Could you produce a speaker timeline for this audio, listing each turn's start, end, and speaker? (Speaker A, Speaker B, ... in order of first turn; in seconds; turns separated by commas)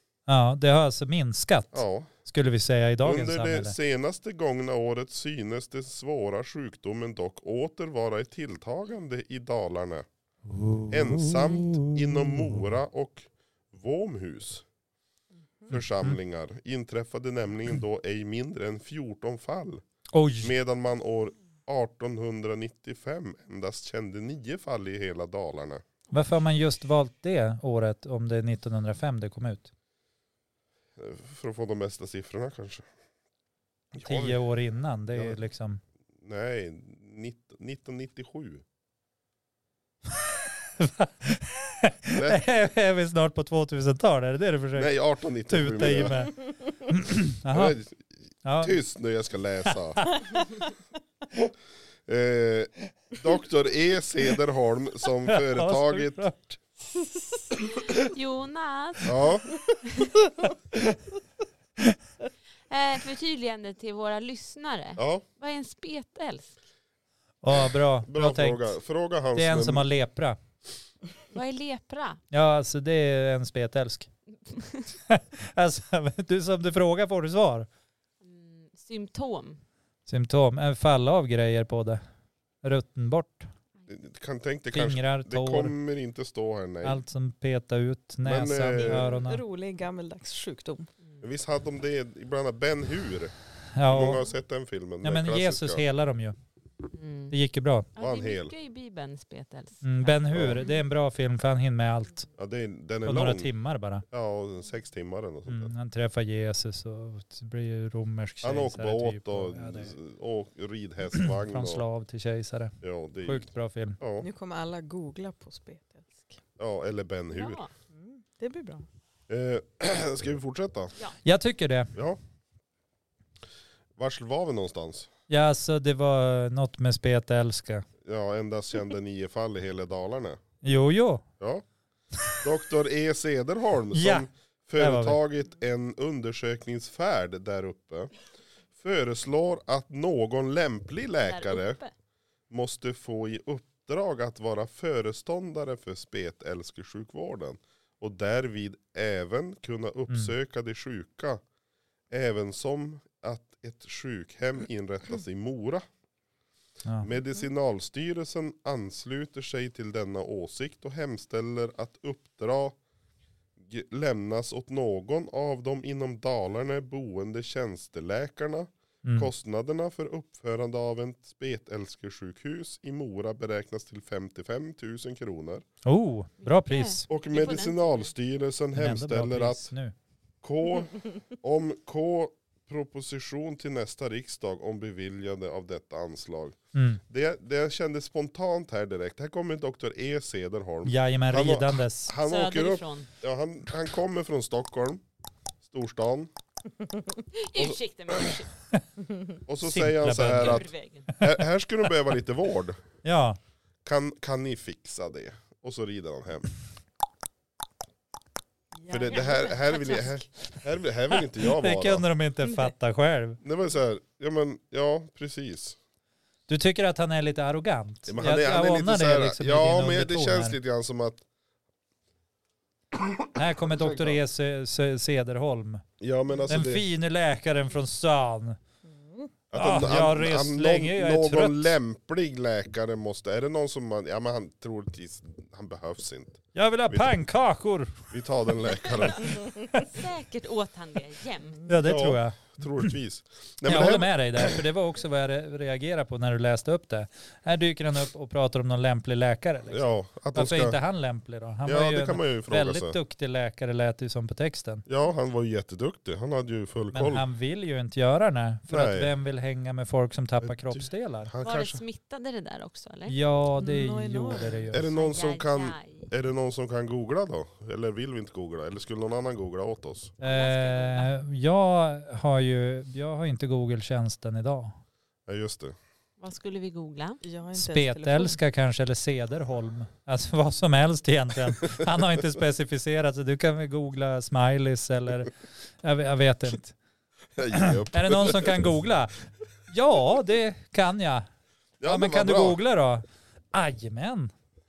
Speaker A: 0.3-3.8, Speaker B: 1.7-2.1, Speaker B: 3.0-10.1, Speaker A: 10.5-12.7, Speaker B: 10.9-14.7, Speaker B: 15.7-19.8, Speaker A: 15.7-16.2, Speaker A: 20.1-20.5, Speaker B: 20.4-25.8, Speaker A: 26.1-29.7, Speaker B: 31.0-32.9, Speaker B: 34.0-34.4, Speaker A: 34.0-35.8, Speaker B: 35.1-35.4, Speaker B: 36.2-38.6, Speaker A: 40.8-44.9, Speaker B: 42.1-42.4, Speaker B: 44.8-46.3, Speaker A: 45.5-47.8, Speaker B: 47.5-50.1, Speaker A: 48.5-48.8, Speaker A: 50.0-50.4, Speaker B: 52.1-56.3, Speaker A: 55.3-56.6, Speaker C: 57.8-59.3, Speaker B: 59.0-59.5, Speaker C: 62.7-66.6, Speaker B: 65.0-65.2, Speaker A: 67.4-68.7, Speaker B: 68.0-69.9, Speaker A: 69.3-70.4, Speaker C: 71.3-72.2, Speaker A: 72.3-74.1, Speaker A: 75.1-77.7, Speaker C: 78.2-79.6, Speaker A: 80.1-82.0, Speaker A: 82.6-83.5, Speaker B: 83.9-87.0, Speaker A: 84.7-85.8, Speaker A: 86.8-89.4, Speaker B: 88.2-89.1, Speaker D: 88.8-90.9, Speaker B: 91.2-93.3, Speaker A: 93.8-94.2, Speaker B: 93.9-95.8, Speaker A: 95.0-96.4, Speaker C: 96.9-97.3, Speaker A: 97.3-97.9, Speaker C: 98.0-100.8, Speaker B: 98.0-98.5, Speaker A: 99.8-102.3, Speaker B: 100.3-100.7, Speaker B: 102.4-103.5, Speaker A: 103.0-104.0, Speaker B: 104.1-105.7, Speaker A: 105.5-109.9, Speaker B: 108.4-111.8, Speaker A: 111.2-114.0, Speaker B: 112.8-114.3, Speaker D: 114.2-116.4, Speaker B: 116.6-117.6, Speaker C: 117.3-117.7, Speaker D: 117.9-118.9, Speaker B: 119.3-120.9, Speaker A: 121.2-121.9, Speaker B: 122.0-122.2, Speaker B: 124.0-125.1, Speaker A: 125.3-127.9, Speaker B: 128.0-130.4, Speaker A: 130.6-131.2, Speaker B: 132.4-138.1, Speaker A: 133.9-134.3, Speaker A: 134.8-135.2, Speaker B: 138.8-141.8, Speaker C: 141.3-141.9, Speaker B: 142.5-151.4, Speaker B: 152.1-155.8, Speaker B: 157.0-162.8, Speaker B: 163.6-175.7, Speaker A: 169.0-169.3, Speaker A: 175.8-177.1, Speaker C: 176.4-178.1, Speaker B: 177.1-179.7, Speaker A: 178.8-179.9, Speaker B: 180.4-186.6, Speaker A: 186.7-187.0, Speaker B: 187.1-195.0, Speaker A: 190.8-192.1, Speaker C: 192.2-193.1, Speaker B: 195.7-196.3, Speaker C: 197.3-198.5, Speaker B: 197.6-198.4, Speaker B: 199.5-202.8, Speaker A: 199.6-201.3, Speaker C: 200.3-201.1, Speaker A: 203.0-203.4, Speaker B: 203.8-206.5, Speaker D: 208.8-209.6, Speaker B: 208.9-212.1, Speaker C: 209.1-210.2, Speaker A: 211.4-213.4, Speaker B: 213.4-215.8, Speaker A: 216.5-220.6, Speaker B: 218.1-221.2, Speaker A: 223.3-225.8, Speaker B: 223.6-224.2, Speaker B: 226.0-226.8, Speaker A: 226.5-228.6, Speaker D: 228.9-229.3, Speaker B: 229.5-237.2, Speaker A: 229.5-231.7, Speaker A: 236.5-238.1, Speaker B: 238.1-239.4, Speaker A: 238.7-239.9, Speaker C: 239.8-241.7, Speaker A: 241.7-242.9, Speaker B: 241.8-244.6, Speaker A: 243.7-254.8, Speaker B: 249.7-250.8, Speaker B: 251.7-253.0, Speaker B: 254.9-257.2, Speaker A: 256.9-261.3, Speaker B: 258.7-259.1, Speaker B: 260.4-261.8, Speaker C: 261.4-263.2, Speaker A: 263.1-264.9, Speaker D: 263.6-264.7, Speaker B: 264.7-270.1, Speaker C: 264.9-266.1, Speaker C: 270.2-271.2, Speaker A: 270.2-274.8, Speaker B: 275.3-275.8, Speaker C: 276.2-277.2, Speaker D: 277.2-278.4, Speaker A: 277.6-286.8, Speaker B: 287.4-288.6, Speaker A: 287.5-291.3, Speaker B: 291.8-292.6, Speaker A: 291.8-294.3